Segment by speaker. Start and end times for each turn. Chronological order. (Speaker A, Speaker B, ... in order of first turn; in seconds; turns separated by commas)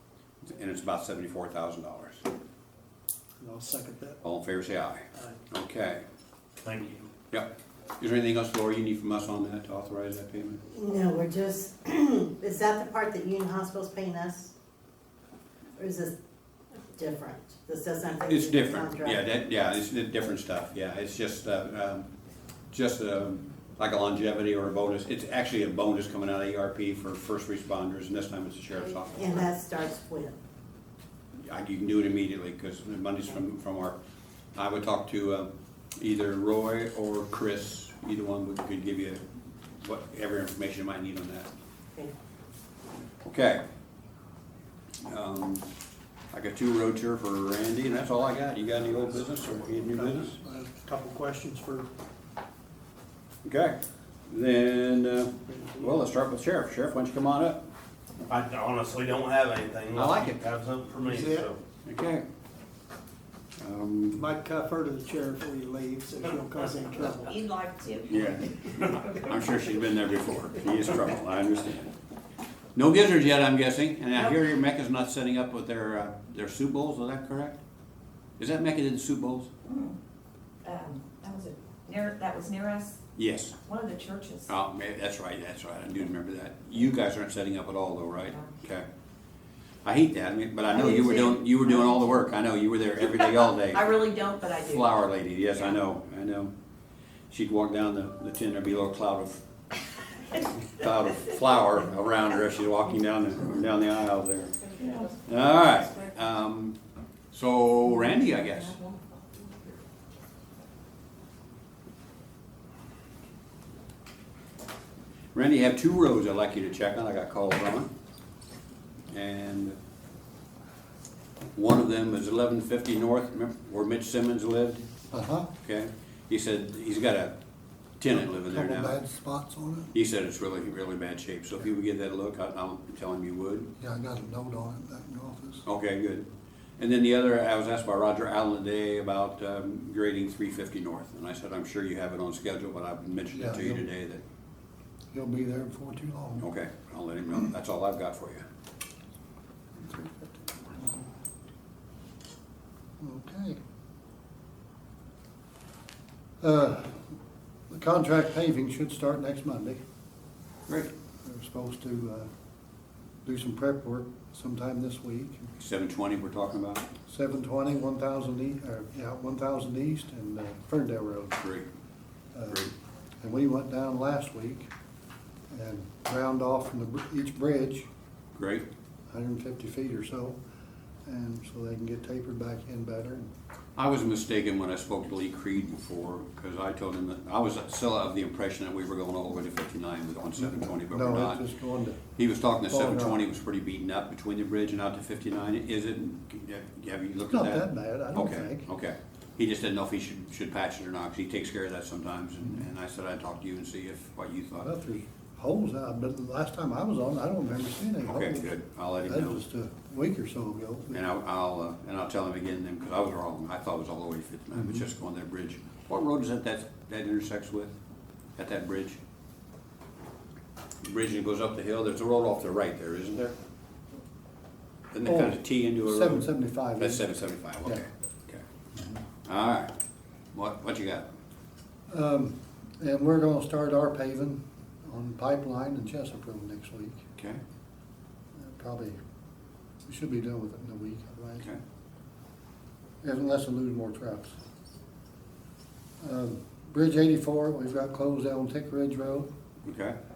Speaker A: 0.4-2.2, Speaker B: 3.4-4.2, Speaker A: 4.2-6.0, Speaker C: 6.6-7.1, Speaker A: 8.0-10.6, Speaker D: 10.7-14.5, Speaker D: 15.8-16.1, Speaker D: 16.8-19.2, Speaker A: 18.3-22.1, Speaker A: 22.7-29.4, Speaker D: 29.0-30.4, Speaker A: 31.4-34.0, Speaker A: 34.5-39.2, Speaker A: 39.8-41.5, Speaker A: 43.2-43.6, Speaker A: 45.0-45.6, Speaker A: 46.3-50.4, Speaker B: 49.9-51.9, Speaker A: 53.4-57.6, Speaker B: 55.5-56.0, Speaker C: 58.3-61.6, Speaker A: 59.9-60.4, Speaker B: 61.0-61.5, Speaker A: 61.8-62.2, Speaker A: 63.6-64.3, Speaker B: 64.1-67.4, Speaker E: 67.1-69.1, Speaker A: 68.1-68.5, Speaker A: 69.1-71.9, Speaker A: 72.7-77.6, Speaker A: 78.4-79.5, Speaker E: 79.7-79.9, Speaker E: 80.6-83.0, Speaker A: 83.2-83.6, Speaker E: 83.6-84.5, Speaker A: 84.5-88.8, Speaker A: 89.8-96.5, Speaker E: 90.7-92.0, Speaker E: 93.4-94.9, Speaker A: 97.3-99.4, Speaker A: 100.3-104.5, Speaker E: 104.6-106.0, Speaker A: 105.2-106.8, Speaker A: 107.3-108.8, Speaker E: 108.7-109.4, Speaker A: 115.3-117.9, Speaker A: 119.1-119.8, Speaker A: 121.5-124.8, Speaker F: 125.1-125.5, Speaker A: 125.6-127.3, Speaker A: 128.0-128.9, Speaker F: 128.1-129.9, Speaker A: 129.9-133.7, Speaker F: 133.8-135.7, Speaker A: 135.7-136.3, Speaker A: 136.8-144.2, Speaker F: 143.3-143.8, Speaker F: 145.1-146.5, Speaker A: 146.4-148.4, Speaker F: 149.8-150.8, Speaker F: 153.0-153.6, Speaker F: 156.4-157.1, Speaker F: 157.7-159.8, Speaker F: 161.2-162.3, Speaker F: 163.2-165.5, Speaker A: 165.6-166.9, Speaker F: 167.1-171.4, Speaker A: 171.4-171.7, Speaker F: 172.3-174.7, Speaker F: 175.5-177.9, Speaker A: 178.4-178.7, Speaker F: 179.1-180.4, Speaker F: 181.1-183.3, Speaker A: 183.8-191.4, Speaker F: 190.4-192.0, Speaker A: 192.2-204.7, Speaker F: 192.7-193.2, Speaker F: 197.3-198.7, Speaker F: 204.6-211.0, Speaker A: 208.1-209.4, Speaker A: 210.9-217.7, Speaker F: 214.6-214.8, Speaker A: 218.4-219.0, Speaker A: 220.8-223.3, Speaker A: 224.9-226.3, Speaker F: 225.0-227.1, Speaker A: 226.8-228.4, Speaker F: 228.8-229.0, Speaker A: 229.2-229.7, Speaker A: 230.3-231.1, Speaker F: 231.9-237.1, Speaker F: 238.3-239.0, Speaker F: 239.9-241.5, Speaker F: 243.0-244.3, Speaker F: 246.0-249.3, Speaker A: 249.7-250.0